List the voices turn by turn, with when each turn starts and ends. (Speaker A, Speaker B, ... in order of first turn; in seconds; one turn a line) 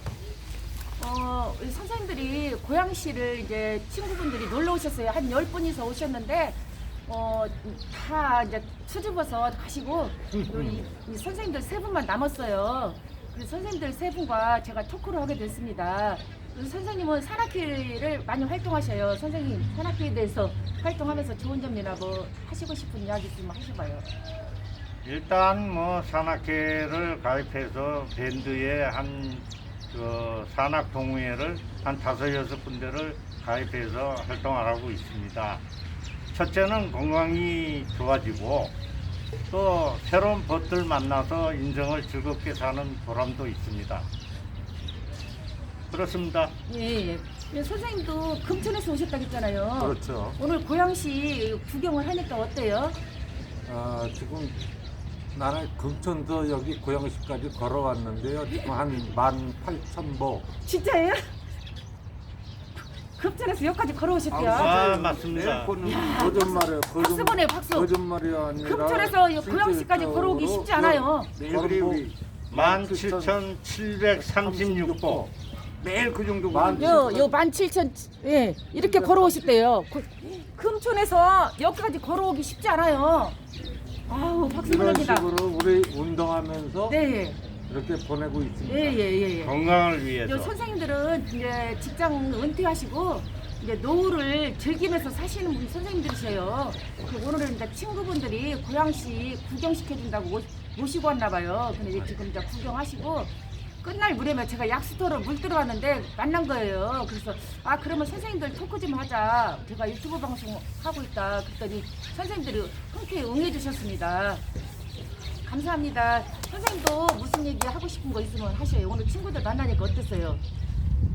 Speaker A: 1.0-24.1
Speaker B: 10.3-10.9
Speaker C: 25.1-35.6
Speaker C: 36.3-38.7
Speaker C: 39.5-44.1
Speaker C: 45.9-46.5
Speaker A: 46.7-53.0
Speaker B: 49.8-50.4
Speaker B: 53.7-54.6
Speaker B: 55.3-60.5
Speaker A: 60.6-61.3
Speaker A: 62.8-64.9
Speaker D: 64.3-66.4
Speaker C: 64.4-65.7
Speaker A: 65.8-67.9
Speaker B: 66.0-73.4
Speaker A: 68.6-71.3
Speaker D: 71.4-72.2
Speaker C: 72.5-75.2
Speaker B: 74.1-75.3
Speaker D: 75.8-77.3
Speaker B: 76.5-77.3
Speaker A: 76.8-83.4
Speaker B: 78.8-79.5
Speaker A: 84.1-85.3
Speaker B: 84.6-87.0
Speaker A: 86.9-87.4
Speaker B: 87.7-89.0
Speaker A: 88.7-89.6
Speaker C: 89.4-90.5
Speaker A: 90.2-114.4
Speaker A: 115.4-120.4